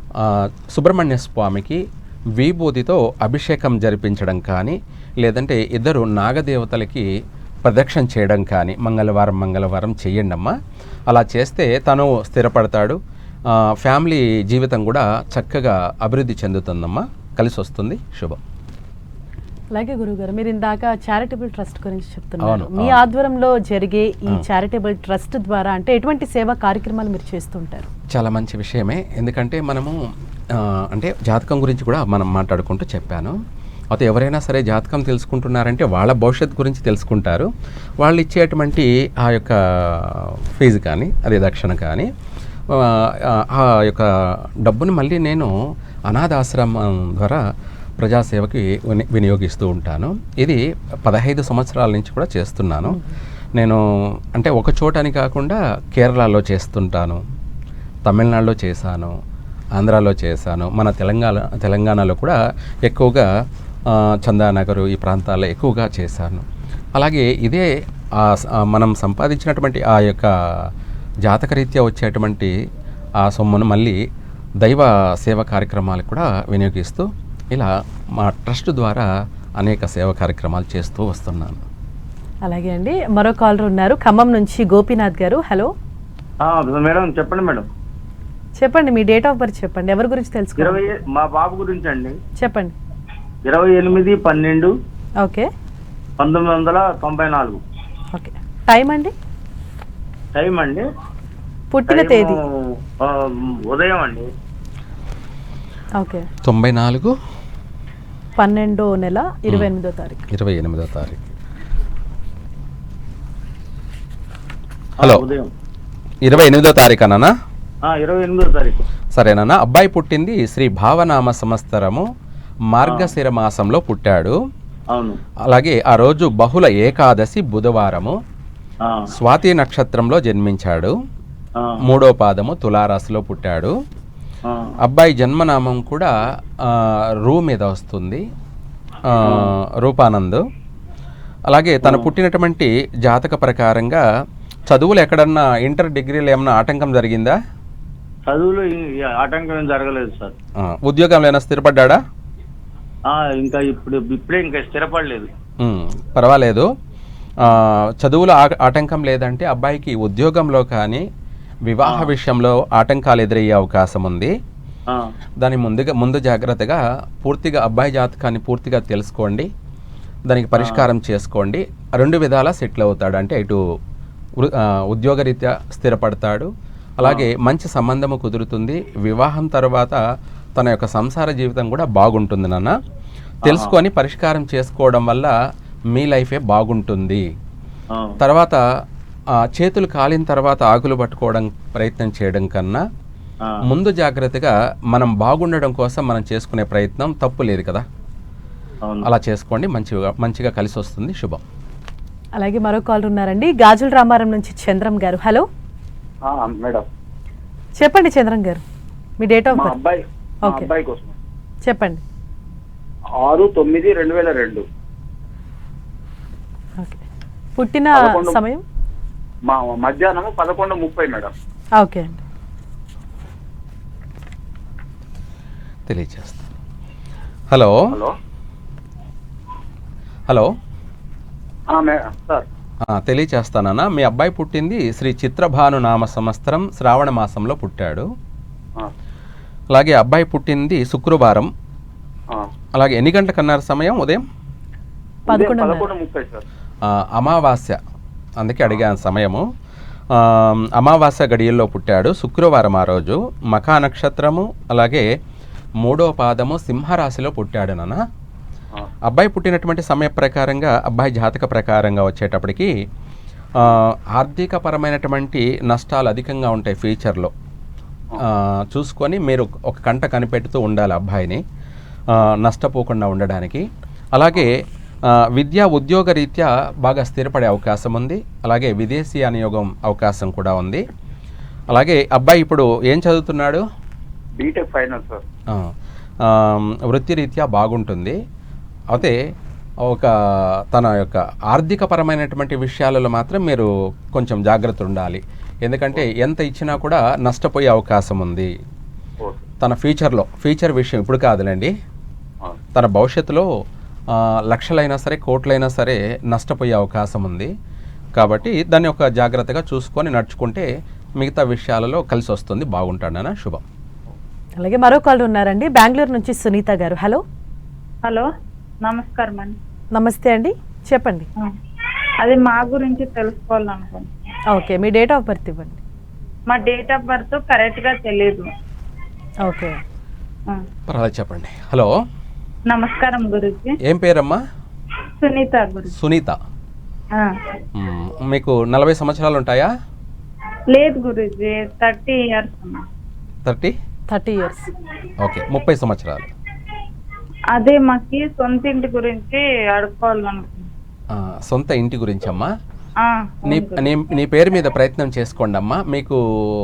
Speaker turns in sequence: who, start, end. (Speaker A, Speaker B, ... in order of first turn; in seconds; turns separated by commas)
Speaker A: 0.2-1.8, Speaker A: 2.4-7.1, Speaker A: 7.6-10.6, Speaker A: 11.1-13.0, Speaker A: 13.5-18.4, Speaker B: 19.7-27.9, Speaker A: 22.4-23.0, Speaker A: 28.1-30.0, Speaker A: 30.5-33.4, Speaker A: 33.9-37.5, Speaker A: 38.0-42.1, Speaker A: 42.7-44.1, Speaker A: 44.6-45.5, Speaker A: 46.1-47.4, Speaker A: 48.0-53.0, Speaker B: 52.9-53.1, Speaker A: 53.6-53.8, Speaker A: 54.3-57.2, Speaker A: 58.1-59.1, Speaker A: 59.8-63.3, Speaker A: 63.9-66.5, Speaker A: 67.0-70.3, Speaker A: 71.2-72.5, Speaker A: 73.2-74.0, Speaker A: 74.6-79.1, Speaker A: 79.6-81.6, Speaker B: 82.5-85.7, Speaker C: 86.4-87.7, Speaker B: 88.6-90.8, Speaker C: 90.6-92.2, Speaker B: 92.4-92.8, Speaker C: 93.5-94.7, Speaker B: 95.2-95.5, Speaker C: 96.2-97.6, Speaker B: 98.1-99.1, Speaker C: 100.4-100.8, Speaker B: 101.7-102.4, Speaker C: 101.9-102.4, Speaker C: 103.0-104.3, Speaker B: 106.0-106.3, Speaker A: 106.4-107.2, Speaker B: 108.4-110.3, Speaker A: 110.3-111.3, Speaker C: 115.0-115.5, Speaker A: 115.0-115.3, Speaker A: 116.2-117.3, Speaker C: 117.9-118.8, Speaker A: 119.2-122.0, Speaker A: 122.7-124.4, Speaker C: 122.8-123.1, Speaker C: 124.9-125.2, Speaker A: 125.5-128.2, Speaker C: 128.8-129.1, Speaker A: 129.1-130.9, Speaker A: 131.8-133.7, Speaker C: 134.5-134.8, Speaker A: 134.8-138.2, Speaker A: 139.1-140.4, Speaker C: 139.2-139.5, Speaker A: 141.5-144.0, Speaker A: 144.7-147.4, Speaker C: 148.3-150.3, Speaker A: 150.6-152.0, Speaker C: 153.1-155.3, Speaker A: 155.6-156.7, Speaker A: 157.4-161.1, Speaker A: 161.7-164.3, Speaker C: 161.8-162.1, Speaker A: 165.4-169.5, Speaker A: 170.3-173.6, Speaker C: 170.6-170.9, Speaker A: 174.4-176.5, Speaker A: 177.0-180.0, Speaker A: 180.6-182.8, Speaker C: 183.4-183.7, Speaker A: 183.4-185.3, Speaker A: 185.9-187.2, Speaker C: 187.9-188.2, Speaker A: 188.2-188.6, Speaker A: 189.5-192.8, Speaker A: 193.7-197.8, Speaker A: 199.0-201.4, Speaker B: 202.4-205.5, Speaker D: 206.3-206.8, Speaker B: 207.8-208.6, Speaker B: 209.2-209.8, Speaker D: 209.5-211.2, Speaker B: 210.4-210.7, Speaker B: 211.7-212.0, Speaker D: 213.2-214.6, Speaker B: 217.6-218.6, Speaker D: 217.9-218.4, Speaker D: 219.5-221.3, Speaker B: 221.8-222.2, Speaker A: 225.9-226.5, Speaker A: 227.5-227.8, Speaker D: 231.7-232.4, Speaker A: 232.8-238.1, Speaker A: 239.7-241.5, Speaker A: 242.8-244.2, Speaker B: 245.3-245.9, Speaker D: 245.3-246.4, Speaker A: 246.9-247.8, Speaker A: 248.4-249.4, Speaker A: 250.1-255.1, Speaker A: 255.8-258.0, Speaker A: 259.1-262.7, Speaker A: 263.6-267.3, Speaker A: 268.2-271.4, Speaker A: 272.1-274.6, Speaker A: 275.4-280.9, Speaker A: 281.7-283.6, Speaker D: 284.4-285.2, Speaker A: 286.2-288.2, Speaker A: 288.9-289.2, Speaker A: 289.9-290.1, Speaker A: 290.7-298.5, Speaker A: 299.6-301.7, Speaker A: 302.8-303.5, Speaker A: 304.1-307.5, Speaker A: 308.1-310.7, Speaker A: 311.2-313.6, Speaker B: 314.6-317.2, Speaker E: 318.8-319.6, Speaker B: 319.9-321.3, Speaker E: 322.2-324.1, Speaker B: 324.5-325.8, Speaker E: 326.5-328.5, Speaker B: 329.4-329.8, Speaker A: 330.9-331.9, Speaker E: 332.7-333.8, Speaker A: 333.9-334.4, Speaker E: 335.2-335.9, Speaker A: 336.0-336.4, Speaker E: 337.1-337.6, Speaker A: 337.8-339.7, Speaker E: 340.7-342.9, Speaker A: 343.5-343.8, Speaker B: 344.1-344.7, Speaker A: 345.2-346.3, Speaker E: 347.5-350.7, Speaker A: 351.1-352.5, Speaker E: 353.0-353.9, Speaker A: 353.5-356.2